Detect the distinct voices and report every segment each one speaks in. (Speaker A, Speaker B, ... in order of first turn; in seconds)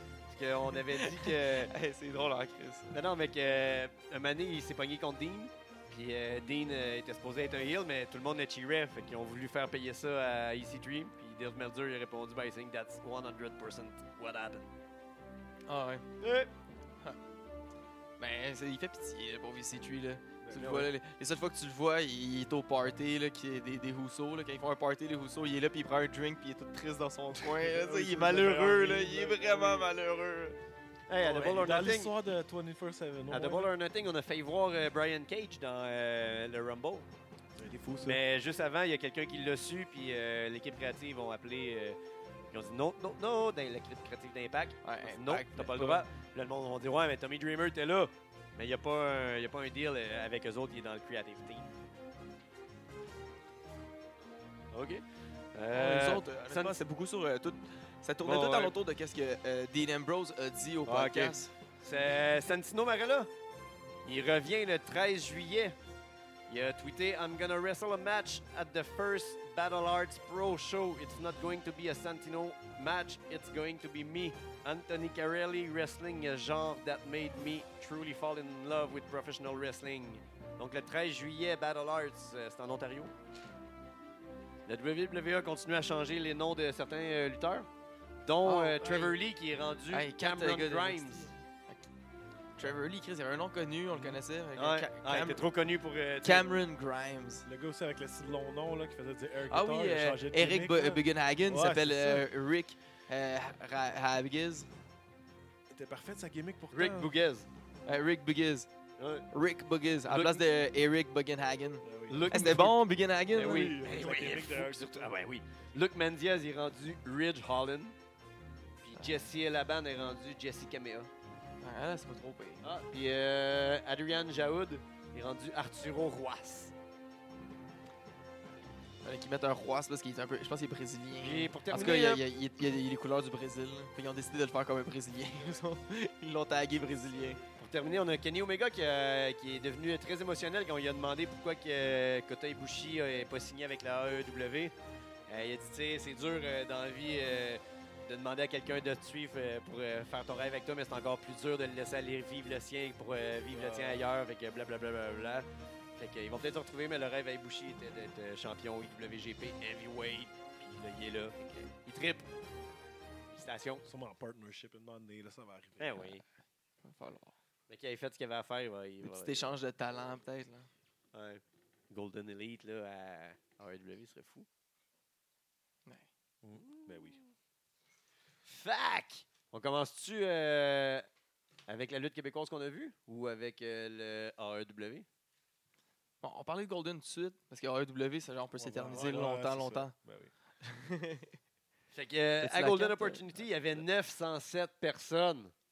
Speaker A: 0.3-1.7, 2.9-14.7, 16.2-16.5, 20.5-20.9, 31.1-32.1, 33.3-37.0, 38.0-42.0, 42.5-51.7, 54.7-55.0, 55.5-56.8, 58.2-58.8, 60.9-63.3, 64.0-65.7, 66.5-83.1, 84.7-87.7, 88.2-91.3, 94.5-96.6, 106.7-107.5, 109.0-109.3, 110.1-110.4, 112.1-112.8, 113.3-117.9, 118.8-121.1, 122.6-126.7, 131.2-132.2, 137.6-144.7, 145.3-155.4, 156.0-162.3, 163.3-163.8, 165.8-166.2, 167.7-169.5, 171.1-174.5, 176.7-177.2, 178.4-181.0, 181.7-185.1, 191.9-195.5
Speaker B: 0.9-3.0, 15.7-16.1, 18.2-30.6, 44.8-46.0, 55.7-61.5, 88.4-89.2, 89.9-91.8, 92.6-95.4, 96.2-97.5, 99.5-104.7, 107.8-108.7, 109.3-114.1, 119.0-119.2, 121.6-122.7, 129.0-137.4, 166.8-167.3, 169.0-170.7, 186.2-189.9, 190.6-191.3, 192.4-193.8
Speaker C: 20.4-20.8, 27.4-29.9, 31.2-33.7, 37.5-38.2, 93.9-94.2, 97.5-102.3, 105.7-107.1, 111.8-112.3, 113.5-115.1, 153.5-154.1, 163.8-166.0, 176.4-177.2, 188.6-190.3